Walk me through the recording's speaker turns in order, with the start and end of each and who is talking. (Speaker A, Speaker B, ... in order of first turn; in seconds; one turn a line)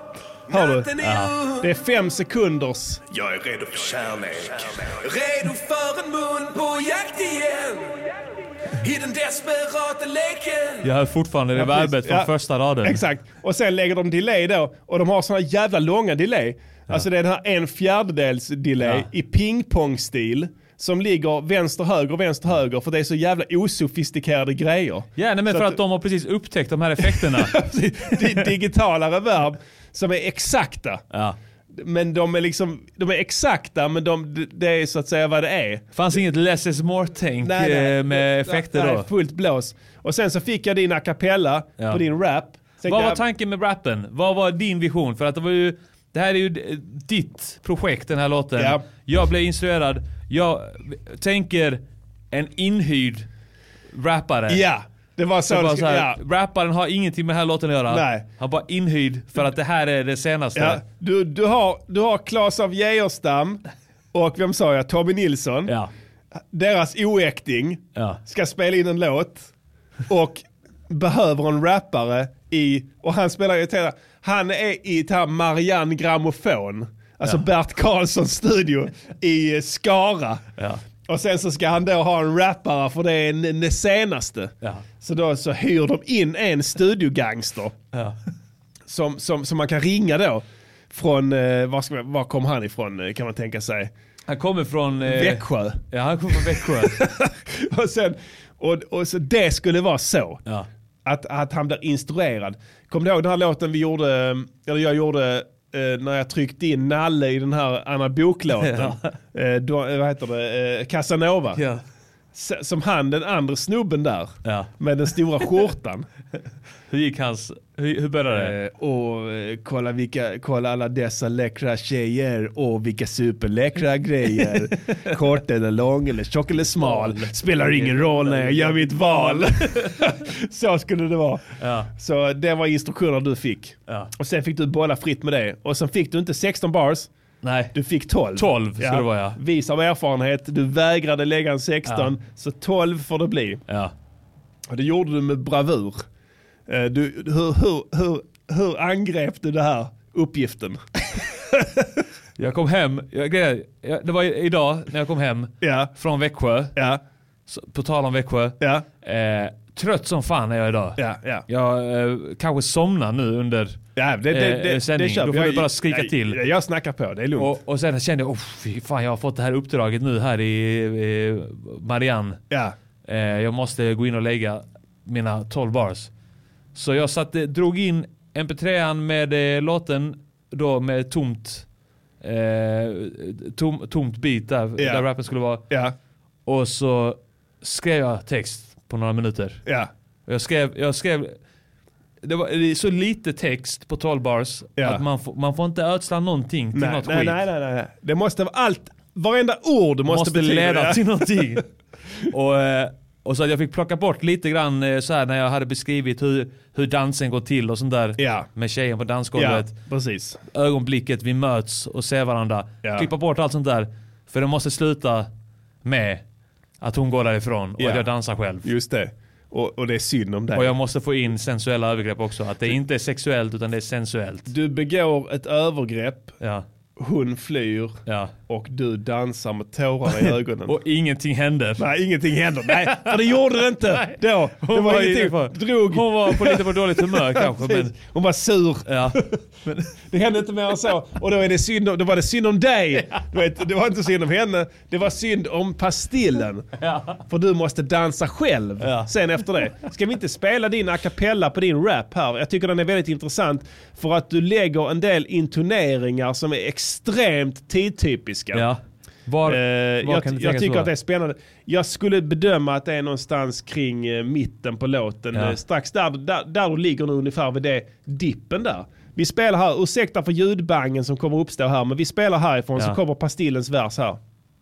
Speaker A: 0.5-3.2
Speaker B: 0.5-1.6
Speaker C: 1.0-1.3
Speaker B: 3.2-7.9
Speaker B: 8.8-10.8
Speaker C: 10.8-13.0
Speaker A: 11.6-12.3
Speaker A: 12.8-25.8
Speaker C: 18.8-19.1
Speaker C: 25.2-28.5
Speaker A: 27.0-31.0
Speaker C: 31.1-31.4
Speaker A: 31.7-35.9
Speaker C: 35.9-39.1
Speaker A: 37.4-43.2
Speaker C: 42.8-51.8
Speaker A: 48.5-48.8
Speaker C: 52.3-53.3
Speaker C: 53.9-54.6
Speaker A: 54.5-56.2
Speaker C: 55.5-60.8
Speaker A: 57.9-58.2
Speaker A: 60.5-63.6
Speaker A: 64.1-65.7
Speaker A: 66.5-69.5
Speaker A: 70.1-80.4
Speaker C: 80.6-80.8
Speaker A: 81.1-87.7
Speaker A: 88.9-93.9
Speaker C: 94.3-97.0
Speaker A: 95.0-95.8
Speaker A: 96.3-100.4
Speaker A: 101.0-111.6
Speaker C: 108.6-109.1
Speaker C: 111.5-111.8
Speaker A: 112.3-116.1
Speaker C: 114.4-114.7
Speaker C: 116.9-118.5
Speaker A: 118.3-137.1
Speaker C: 126.8-130.1
Speaker C: 131.6-131.9
Speaker C: 137.4-137.7
Speaker A: 137.7-143.6
Speaker C: 138.3-139.4
Speaker C: 143.7-143.9
Speaker A: 144.7-146.0
Speaker A: 146.7-150.8
Speaker A: 151.3-151.9
Speaker C: 152.4-156.8
Speaker A: 155.6-155.9
Speaker A: 156.7-157.0
Speaker C: 157.5-166.4
Speaker A: 158.6-158.8
Speaker A: 161.0-161.4
Speaker A: 163.9-167.5
Speaker C: 167.4-172.4
Speaker C: 173.0-176.1
Speaker C: 176.7-181.6
Speaker C: 182.2-185.6
Speaker A: 184.8-185.0
Speaker A: 185.7-185.9
Speaker C: 186.4-189.6
Speaker C: 190.3-191.3
Speaker C: 192.2-197.4
Speaker A: 194.8-195.0
Speaker A: 196.7-201.0
Speaker C: 200.1-201.6
Speaker C: 202.3-209.7
Speaker A: 208.2-208.5
Speaker A: 209.3-210.4
Speaker C: 210.5-215.3
Speaker C: 215.8-216.2
Speaker C: 216.8-218.7
Speaker A: 217.8-218.0
Speaker A: 218.6-220.7
Speaker C: 220.5-224.5
Speaker A: 224.5-226.3
Speaker A: 227.0-230.7
Speaker C: 228.1-228.3
Speaker C: 230.1-231.8
Speaker A: 231.8-239.4
Speaker C: 232.7-237.9
Speaker C: 238.9-239.8
Speaker A: 240.0-246.7
Speaker C: 246.8-247.2
Speaker A: 247.3-258.6
Speaker C: 248.8-249.1
Speaker C: 258.5-260.9
Speaker A: 259.4-274.2